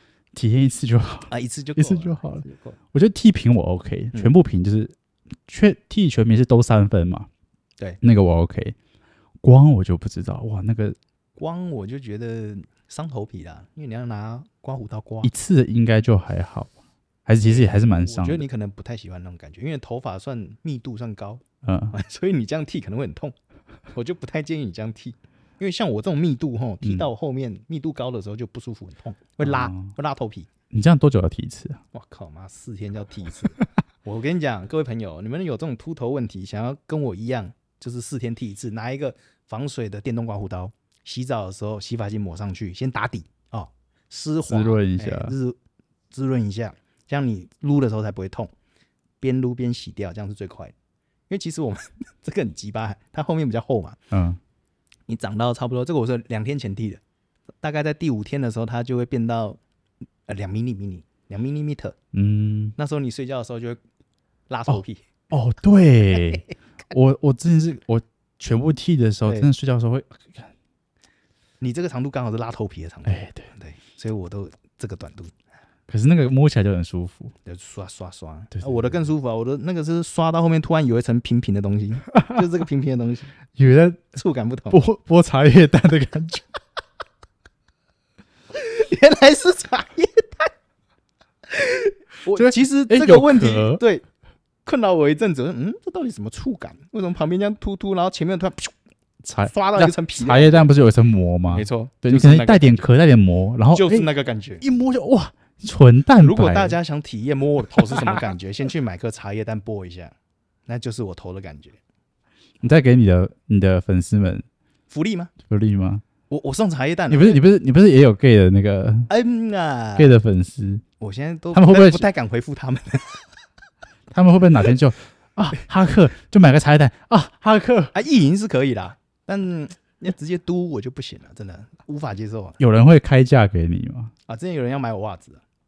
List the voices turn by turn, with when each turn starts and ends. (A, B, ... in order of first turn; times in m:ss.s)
0:00.3-0:04.9 A
0:01.3-0:02.8 B
0:05.5-0:07.3 A
0:08.0-0:08.8 A
0:09.4-0:11.0 A
0:11.4-0:15.3 B
0:15.2-0:16.7 A
0:17.2-0:18.4 A
0:17.4-0:23.3 B
0:21.6-0:21.9 A
0:23.9-0:30.5 B
0:26.8-0:27.1 A
0:29.4-0:29.9 A
0:30.7-0:31.8 A
0:31.9-0:45.6 B
0:44.5-0:45.3 A
0:46.1-0:48.5 B
0:49.2-0:50.7 B
0:51.3-0:54.0 B
0:54.1-0:54.4 A
0:55.1-0:57.0 B
0:57.6-0:59.6 B
1:00.2-1:02.0 B
1:02.1-1:02.8 A
1:02.8-1:03.8 B
1:04.5-1:05.0 B
1:05.3-1:10.5 A
1:06.1-1:06.4 B
1:11.6-1:15.3 B
1:13.1-1:13.5 A
1:15.9-1:17.3 A
1:17.4-1:23.3 B
1:18.5-1:18.9 A
1:22.1-1:22.4 A
1:23.6-1:24.1 A
1:24.1-1:24.8 B
1:24.7-1:26.4 A
1:28.5-1:30.5 B
1:31.5-1:34.0 B
1:32.3-1:33.8 A
1:34.6-1:38.7 B
1:39.2-1:44.1 A
1:39.4-1:40.7 B
1:41.5-1:42.8 B
1:43.7-1:44.6 B
1:44.6-1:46.8 A
1:46.2-1:50.1 B
1:50.6-1:51.8 B
1:52.6-1:54.4 A
1:54.9-1:55.3 B
1:55.5-1:56.0 A
1:56.3-1:57.4 B
1:57.1-1:59.1 A
1:59.1-2:00.1 B
2:00.0-2:00.8 A
2:01.0-2:03.3 B
2:01.5-2:02.1 A
2:04.1-2:07.9 A
2:07.9-2:12.6 B
2:12.6-2:14.1 A
2:14.3-2:15.4 B